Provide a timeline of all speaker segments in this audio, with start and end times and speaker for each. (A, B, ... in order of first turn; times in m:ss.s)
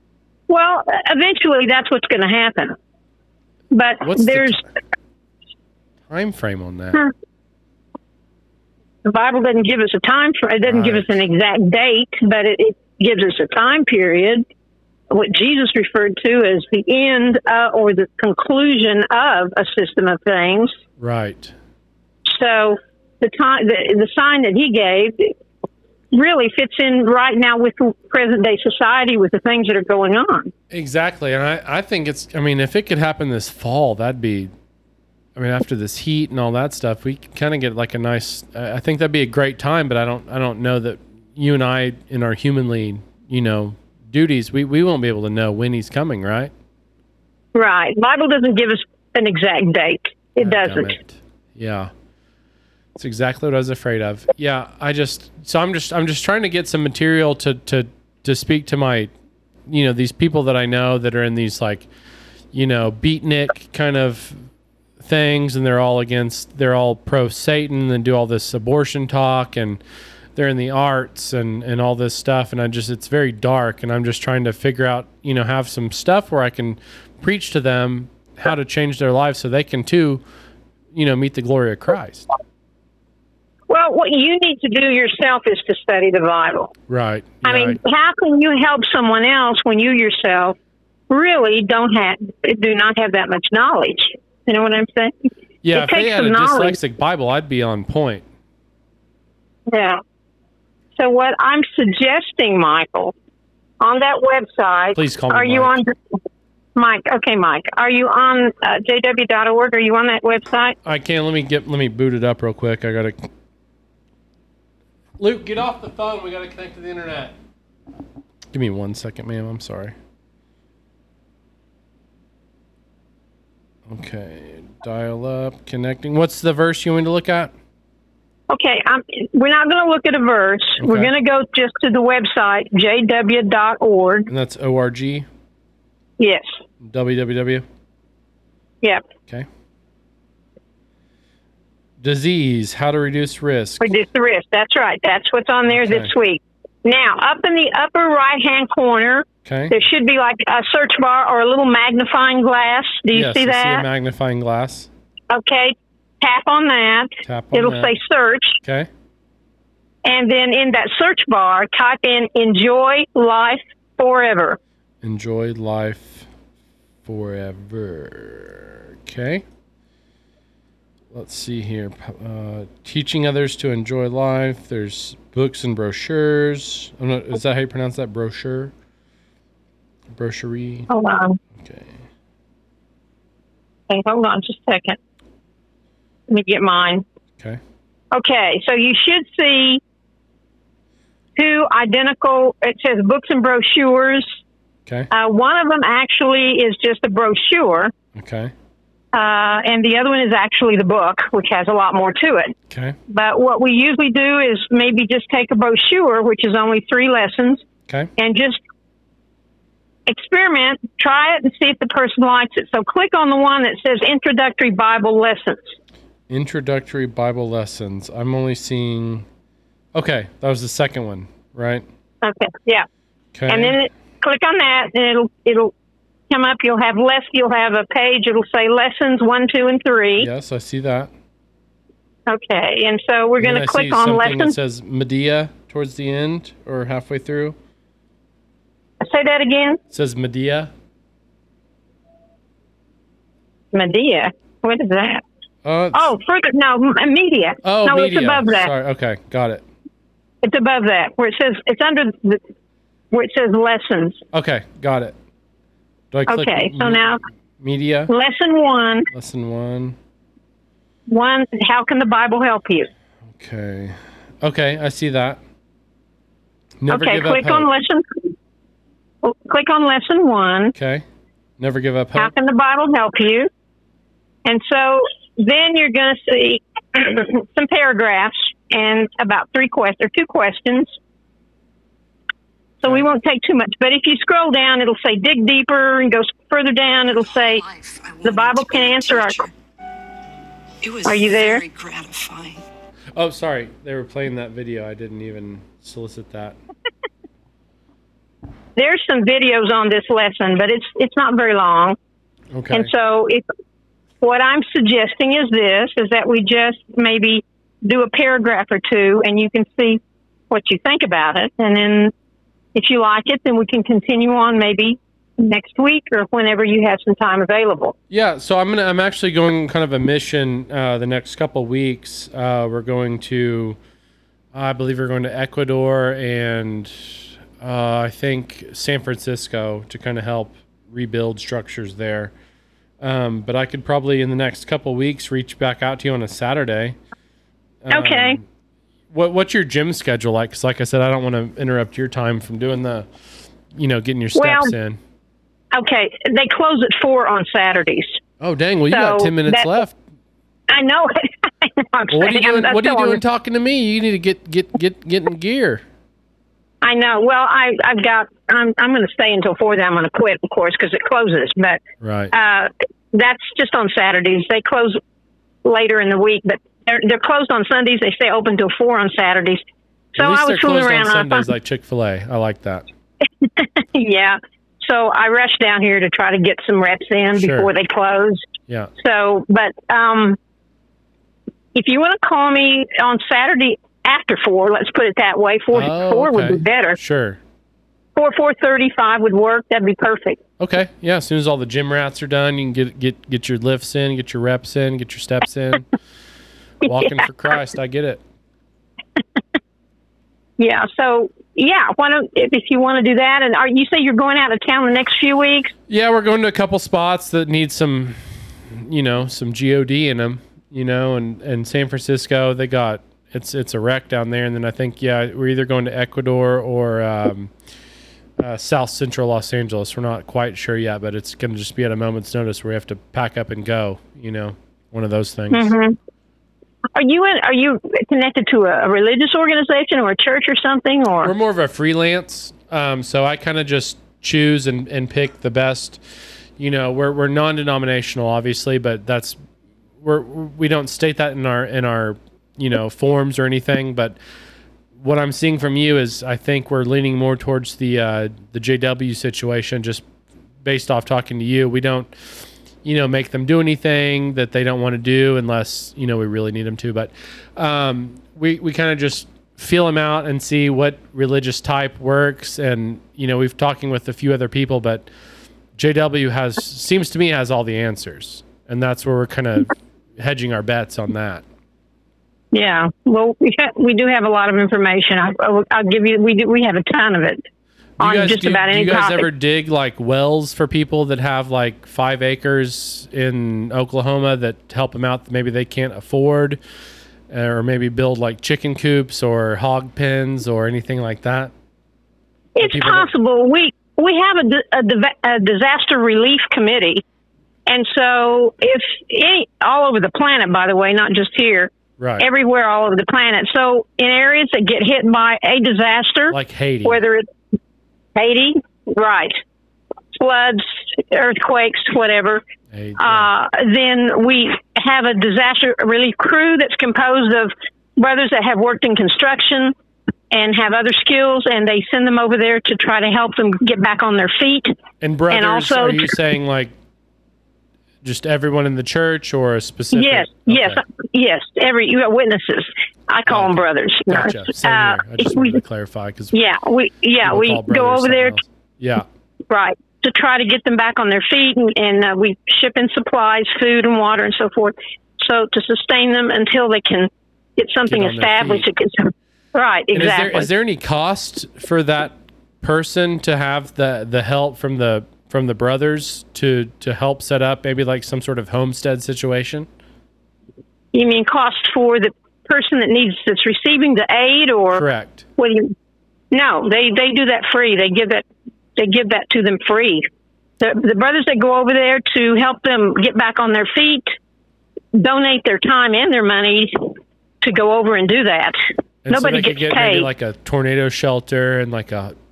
0:00.5-0:02.8 A
0:03.7-0:04.6 A
0:04.0-0:04.6 B
0:06.1-0:07.1 B
0:09.0-0:14.4 A
0:10.6-0:11.2 B
0:15.1-0:20.8 A
0:21.0-0:21.5 B
0:22.3-0:25.3 A
0:26.1-0:30.5 A
0:30.7-0:34.5 B
0:35.4-0:46.5 B
0:47.6-0:51.0 A
0:50.4-0:51.9 B
0:53.0-0:59.1 B
0:59.7-1:01.9 B
1:02.5-1:04.4 B
1:05.0-1:09.8 B
1:10.4-1:20.2 B
1:20.9-1:22.3 B
1:23.7-1:26.7 A
1:26.9-1:27.8 B
1:27.4-1:30.6 A
1:31.1-1:35.1 A
1:35.6-1:38.2 B
1:35.7-1:36.8 A
1:39.7-1:40.0 A
1:41.0-1:43.1 A
1:43.8-1:45.9 A
1:45.0-1:45.8 B
1:46.8-1:50.8 A
1:50.8-1:53.3 B
1:55.2-1:57.3 B
1:58.5-2:00.0 B
2:03.9-2:07.5 B
2:08.5-2:14.3 A
2:10.8-2:11.1 B
2:14.3-2:15.3 B
2:16.2-2:16.5 A
2:16.8-2:17.6 B
2:22.0-2:23.9 B
2:23.8-2:33.9 A
2:25.7-2:26.1 B
2:29.4-2:29.8 B
2:33.1-2:34.9 B
2:35.3-2:38.6 A
2:37.2-2:38.0 B
2:38.6-2:38.9 B
2:40.0-2:44.6 A
2:45.0-2:46.3 B
2:47.0-2:49.4 B
2:51.1-2:58.7 B
3:00.1-3:00.9 B
3:00.9-3:01.4 A
3:01.6-3:02.0 B
3:03.9-3:05.0 A
3:06.3-3:07.0 A
3:08.1-3:09.8 A
3:11.4-3:14.3 A
3:15.1-3:17.9 A
3:18.2-3:18.5 B
3:19.1-3:22.6 A
3:22.7-3:23.0 B
3:23.1-3:27.6 A
3:28.2-3:28.6 A
3:30.1-3:35.7 A
3:36.3-3:39.3 B
3:40.0-3:41.8 B
3:42.2-3:42.9 A
3:43.4-3:43.8 B
3:43.5-3:45.7 A
3:46.3-3:50.3 A
3:50.2-3:51.1 B
3:52.3-3:54.6 A
3:53.4-3:57.6 B
3:59.0-3:59.8 A
3:59.9-4:00.7 B
4:03.7-4:05.2 A
4:05.6-4:06.1 B
4:05.9-4:08.7 A
4:07.6-4:09.6 B
4:10.4-4:12.4 A
4:13.1-4:14.2 A
4:14.3-4:15.2 B
4:16.1-4:18.1 B
4:16.3-4:17.2 A
4:18.1-4:19.1 A
4:19.1-4:20.0 B
4:21.1-4:22.9 A
4:23.4-4:25.4 B
4:26.8-4:27.7 B
4:26.9-4:28.3 A
4:29.2-4:30.8 A
4:30.8-4:31.0 B
4:31.6-4:32.3 B
4:32.2-4:33.5 A
4:34.4-4:40.9 A
4:42.8-4:47.6 A
4:47.2-4:49.5 C
4:48.2-4:49.4 A
4:50.8-4:52.6 C
4:51.0-4:51.6 A
4:53.2-4:56.6 B
4:58.8-5:02.0 A
5:02.5-5:02.9 B
5:02.7-5:03.4 A
5:04.2-5:12.1 A
5:12.8-5:18.0 A
5:18.1-5:23.8 B
5:24.5-5:32.3 B
5:33.0-5:37.0 B
5:37.8-5:38.4 B
5:37.9-5:38.4 A
5:39.1-5:43.1 B
5:43.7-5:45.0 B
5:44.4-5:44.7 A
5:45.7-5:48.2 A
5:48.4-5:50.0 B
5:48.9-5:49.7 A
5:50.7-5:53.2 A
5:52.1-5:55.8 B
5:56.8-6:01.8 A
6:02.0-6:02.3 B
6:02.3-6:05.0 A
6:05.6-6:09.6 A
6:10.2-6:11.5 A
6:10.2-6:12.8 B
6:13.4-6:18.4 A
6:17.4-6:17.7 B
6:19.0-6:20.4 A
6:21.8-6:27.0 A
6:25.7-6:27.4 B
6:28.2-6:30.4 A
6:30.6-6:35.9 B
6:36.8-6:38.2 B
6:40.6-6:45.7 A
6:45.9-6:57.5 B
6:58.4-7:05.8 B
7:05.5-7:06.0 A
7:07.0-7:11.3 A
7:11.2-7:16.0 B
7:16.6-7:19.4 B
7:20.0-7:24.2 B
7:25.0-7:30.0 B
7:30.6-7:45.1 B
7:45.8-7:51.4 B
7:52.5-7:57.4 A
7:58.0-7:59.3 A
7:58.0-8:06.6 B
8:07.3-8:11.5 B
8:12.6-8:17.0 A
8:12.6-8:13.1 B
8:17.7-8:27.2 A
8:22.0-8:22.3 B
8:26.3-8:27.0 B
8:28.2-8:29.4 A
8:30.1-8:32.4 A
8:32.7-8:33.3 B
8:33.0-8:39.7 A
8:40.3-8:44.8 A
8:45.0-8:46.7 B
8:45.3-8:46.2 A
8:48.0-8:50.8 B
8:49.9-8:55.6 A
8:53.3-8:56.4 B
8:56.3-8:58.4 A
8:57.2-8:59.1 B
8:59.5-9:10.5 A
9:07.9-9:08.7 B
9:09.9-9:19.7 B
9:20.9-9:24.8 A
9:24.7-9:25.2 B
9:25.4-9:25.7 A
9:26.3-9:28.2 A
9:28.8-9:30.1 A
9:30.6-9:34.1 A
9:34.9-9:40.1 A
9:39.0-9:42.2 B